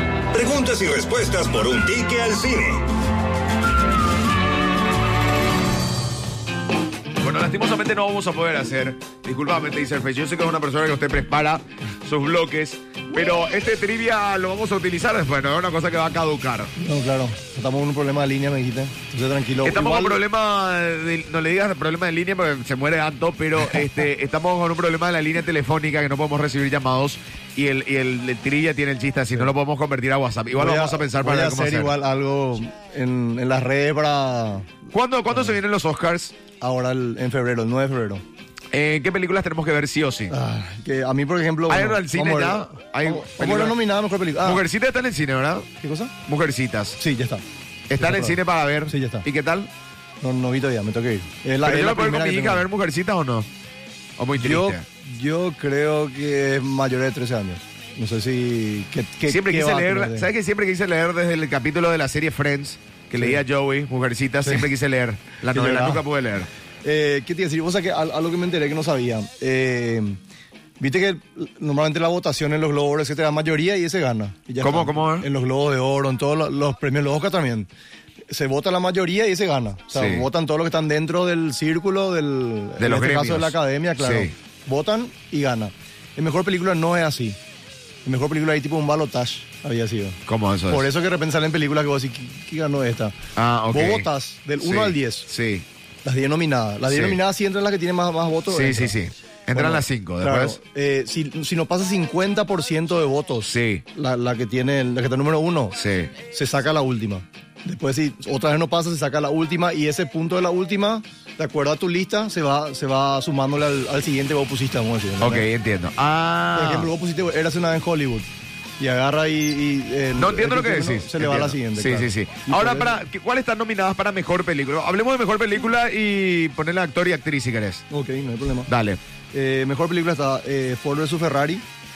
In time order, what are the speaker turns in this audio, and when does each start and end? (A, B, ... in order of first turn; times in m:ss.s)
0:00.3-0:02.9 A
0:07.2-0:16.7 B
0:16.8-0:20.2 C
0:19.6-0:31.9 B
0:30.6-0:34.7 C
0:34.9-0:36.3 B
0:35.3-0:35.6 C
0:36.6-0:38.2 C
0:38.7-0:40.4 B
0:40.3-0:44.6 C
0:41.7-0:43.8 B
0:44.4-0:45.7 B
0:45.8-0:46.1 C
0:46.2-0:47.0 B
0:47.0-0:47.4 C
0:47.9-0:49.7 B
0:48.0-0:49.3 C
0:50.2-0:52.7 C
0:51.6-0:53.5 B
0:54.2-0:54.8 B
0:54.4-1:00.3 C
0:59.3-1:06.5 B
1:03.2-1:03.4 C
1:04.4-1:04.7 C
1:05.5-1:06.0 C
1:06.8-1:10.2 C
1:10.8-1:17.7 C
1:14.6-1:15.3 B
1:18.3-1:27.4 C
1:19.9-1:20.3 B
1:22.8-1:24.3 B
1:28.0-1:33.2 C
1:30.3-1:30.9 B
1:33.4-1:34.1 B
1:33.7-1:35.3 C
1:34.6-1:35.6 B
1:36.0-1:39.0 C
1:36.9-1:37.2 B
1:38.5-1:40.6 B
1:39.5-1:45.8 C
1:43.4-1:43.8 B
1:45.8-1:46.1 B
1:46.3-1:55.5 C
1:55.2-1:56.9 B
1:56.6-1:58.3 C
1:58.8-2:03.0 C
2:00.2-2:07.8 B
2:07.9-2:08.7 C
2:08.7-2:09.0 B
2:09.3-2:11.6 C